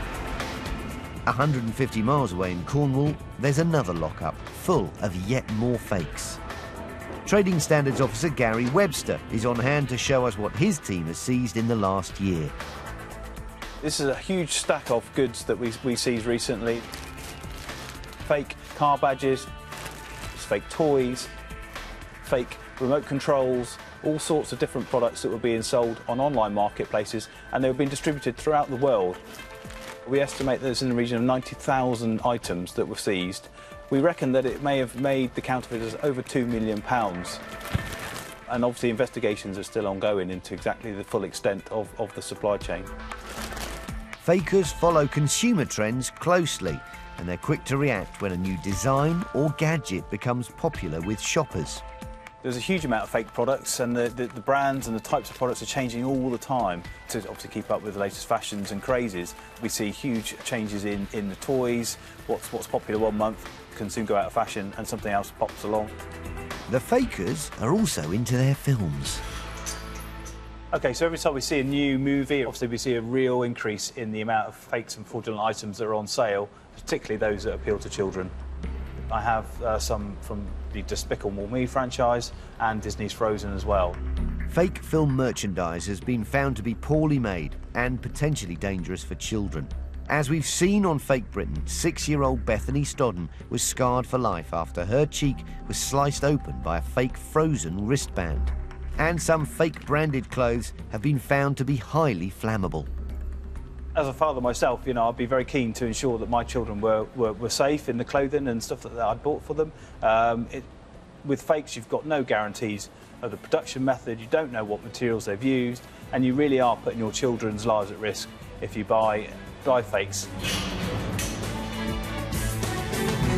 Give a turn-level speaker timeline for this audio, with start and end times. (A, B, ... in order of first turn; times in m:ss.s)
0:01.2-0:06.4 A
0:07.2-0:12.5 A
0:13.8-0:16.8 B
0:18.2-0:19.5 B
0:20.3-0:21.3 B
0:22.2-0:29.2 B
0:30.0-0:37.4 B
0:38.5-0:42.9 B
0:44.2-0:51.8 A
0:52.4-1:05.9 B
1:06.7-1:09.2 A
1:10.7-1:18.3 B
1:19.1-1:24.0 B
1:24.5-1:42.9 A
1:43.9-1:50.7 B
1:51.2-2:00.3 B